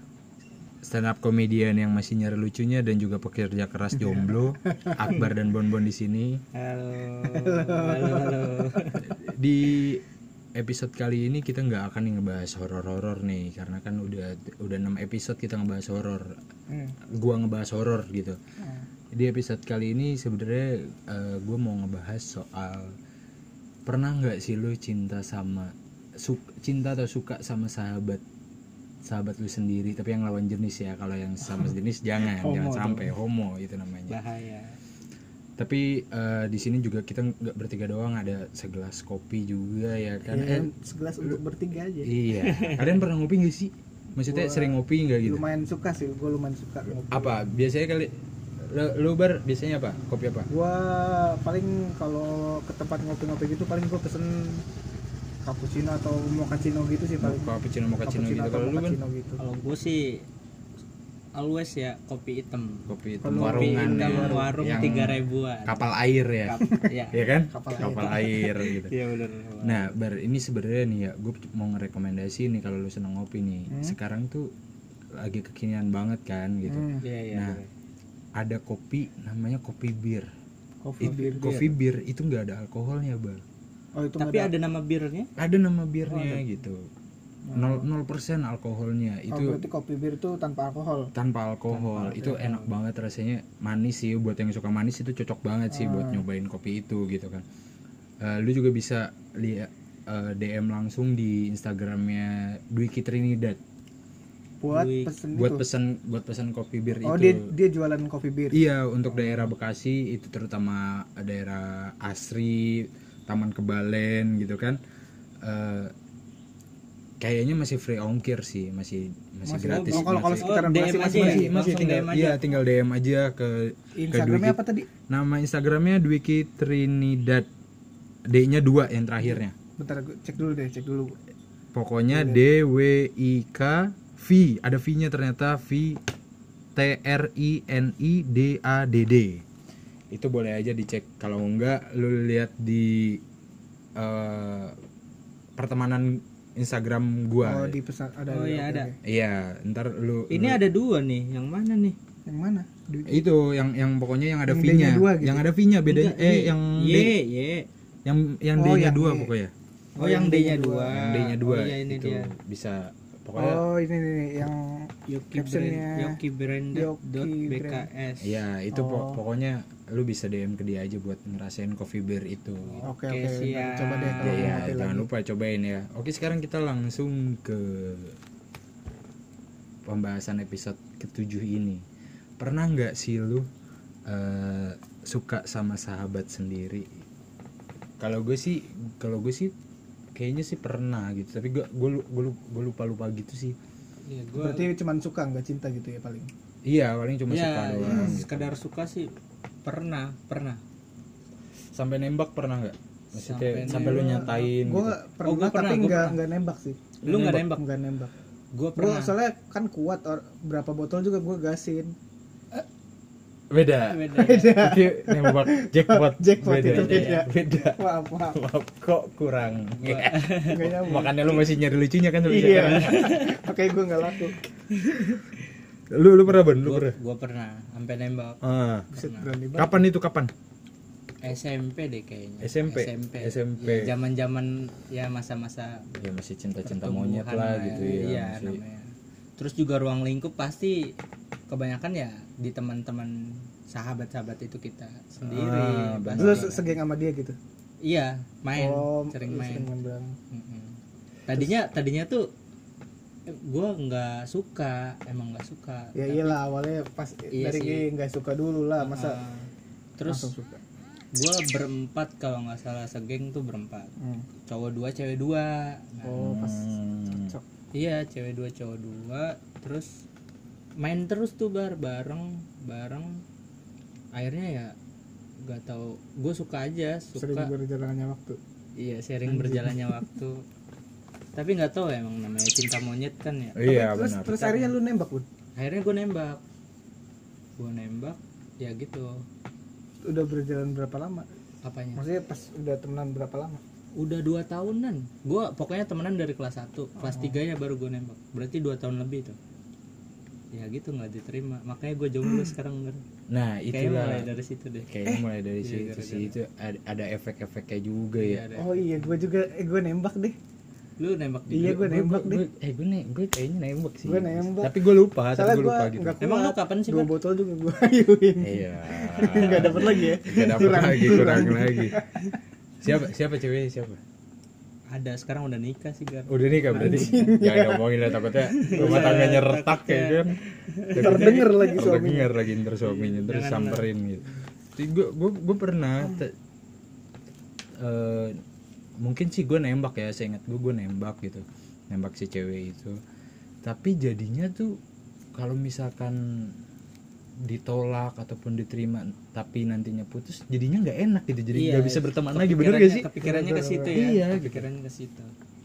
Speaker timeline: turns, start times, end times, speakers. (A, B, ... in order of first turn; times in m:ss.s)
0:00.8-0:06.4 A
0:04.0-0:05.2 B
0:06.5-0:09.0 C
0:07.2-0:08.9 B
0:09.0-0:10.0 A
0:10.6-0:16.4 A
0:16.7-0:17.0 B
0:17.1-0:18.4 A
0:18.6-0:18.8 B
0:19.1-0:23.0 A
0:23.8-0:28.2 A
0:29.0-0:34.2 A
0:32.2-0:33.1 B
0:34.1-0:34.8 C
0:35.6-0:40.7 A
0:40.3-0:42.1 B
0:42.0-0:45.4 A
0:42.4-0:43.0 C
0:44.3-0:47.4 B
0:47.1-0:50.5 A
0:50.5-0:54.6 B
0:55.4-0:57.5 B
0:57.2-0:59.0 A
0:58.0-0:59.4 B
0:59.4-1:00.2 C
1:01.4-1:02.8 C
1:02.9-1:08.9 A
1:03.2-1:04.9 B
1:03.4-1:05.8 C
1:06.4-1:07.2 C
1:07.5-1:08.5 B
1:08.0-1:09.9 C
1:09.6-1:14.5 A
1:13.7-1:14.0 B
1:15.1-1:17.6 A
1:16.7-1:17.0 B
1:17.0-1:17.7 C
1:18.4-1:20.3 A
1:20.8-1:21.7 B
1:21.0-1:23.4 A
1:24.0-1:24.5 B
1:24.2-1:25.3 C
1:25.4-1:26.9 A
1:26.1-1:26.4 C
1:27.4-1:27.8 B
1:27.5-1:29.6 A
1:29.3-1:31.1 B
1:31.1-1:37.4 A
1:31.7-1:32.7 C
1:35.7-1:36.2 B
1:38.2-1:43.6 A
1:44.6-1:45.6 B
1:44.7-1:45.1 C
1:45.3-1:47.5 A
1:47.0-1:48.6 B
1:48.5-1:54.8 A
1:55.4-1:55.9 A
1:57.2-2:00.5 A
1:59.4-2:01.5 B
1:59.7-2:02.4 C
2:01.1-2:07.5 A
2:04.0-2:04.9 B
2:08.3-2:09.5 A
2:09.8-2:11.2 B
2:11.7-2:16.0 A
2:12.1-2:12.4 B
2:16.8-2:19.4 A
2:20.1-2:23.2 A
2:24.0-2:24.8 A
2:25.6-2:27.8 A
2:27.4-2:29.0 B
2:28.3-2:28.9 C
2:29.0-2:30.6 A
2:30.3-2:32.0 C
2:32.3-2:33.2 B
2:33.1-2:37.1 A
2:34.5-2:35.4 B
2:35.9-2:37.6 C
2:38.0-2:39.5 A
2:38.6-2:39.3 B
2:39.9-2:41.0 B
2:40.0-2:42.3 C
2:40.9-2:43.6 A
2:43.4-2:46.2 B
2:45.1-2:48.4 C
2:46.7-2:47.9 B
2:48.2-2:52.8 A
2:48.7-2:49.2 B
2:52.6-2:54.6 C
2:52.8-2:55.1 B
2:54.2-2:58.2 A
2:59.8-3:01.8 A
3:02.4-3:03.5 A
3:04.1-3:07.0 A
3:08.0-3:09.5 A
3:10.1-3:13.6 A
3:14.0-3:14.7 C
3:14.4-3:16.3 B
3:16.6-3:18.6 A
3:17.3-3:19.1 C
3:17.9-3:18.2 B
3:19.6-3:20.6 C
3:21.7-3:25.0 A
3:23.1-3:24.3 C
3:23.7-3:27.0 B
3:25.2-3:26.2 C
3:27.0-3:27.6 C
3:27.0-3:27.5 A
3:27.5-3:28.1 B
3:28.5-3:29.1 C
3:28.8-3:31.9 B
3:33.5-3:37.8 A
3:33.9-3:34.5 C
3:34.2-3:38.4 B
3:36.6-3:37.2 C
3:38.3-3:43.1 A
3:39.8-3:41.0 C
3:40.5-3:41.4 B
3:42.2-3:44.4 B
3:42.3-3:43.4 C
3:44.7-3:45.4 C
3:44.9-3:45.2 A
3:45.9-3:47.0 A
3:46.3-3:48.4 C
3:48.4-3:48.9 A
3:48.9-3:49.8 B
3:48.9-3:49.3 C
3:49.5-3:50.3 A
3:51.2-3:56.0 C
3:52.4-3:53.9 A
3:56.0-3:58.6 A
3:56.6-4:00.9 C
4:01.5-4:06.6 C
4:05.2-4:06.6 A
4:06.2-4:07.4 B
4:07.8-4:09.7 C
4:08.6-4:10.1 B
4:10.3-4:10.8 C
4:11.3-4:12.3 C
4:13.3-4:16.4 C
4:16.0-4:19.2 B
4:17.3-4:17.8 C
4:18.8-4:20.3 C
4:20.1-4:20.6 B
4:21.1-4:23.9 C
4:24.0-4:24.2 B
4:24.5-4:26.2 C
4:26.0-4:27.4 B
4:26.2-4:27.4 A
4:27.7-4:30.0 C
4:30.8-4:33.2 C
4:34.1-4:34.7 C
4:35.4-4:37.5 C
4:37.2-4:38.4 B
4:38.8-4:40.4 C
4:39.3-4:40.0 B
4:41.3-4:43.6 C
4:43.6-4:44.4 A
4:43.6-4:45.2 B
4:44.4-4:44.7 C
4:45.6-4:46.4 C
4:47.6-4:49.2 C
4:50.0-4:51.2 B
4:51.6-4:52.0 C
4:52.0-4:53.6 B
4:54.0-4:59.4 C
4:57.0-4:57.4 B
5:00.5-5:03.0 C
5:03.3-5:04.3 A
5:03.7-5:04.9 C
5:04.8-5:08.4 A
5:05.6-5:06.3 C
5:08.2-5:09.2 C
5:08.6-5:10.4 B
5:11.0-5:11.8 C
5:11.5-5:12.4 B
5:11.6-5:16.2 A
5:14.0-5:22.1 B
5:16.2-5:17.1 C
5:18.4-5:22.0 A
5:19.1-5:20.1 C
5:22.8-5:24.0 A
5:24.9-5:27.2 C
5:26.3-5:30.4 A
5:26.7-5:27.9 B
5:28.5-5:31.8 C
5:30.9-5:36.3 A
5:31.0-5:32.3 B
5:32.8-5:33.9 C
5:37.8-5:38.4 A
5:39.0-5:43.0 A
5:43.6-5:44.8 A
5:45.3-5:46.5 A
5:47.4-5:53.1 A
5:51.5-5:55.3 C
5:53.2-5:54.0 B
5:53.9-5:54.6 A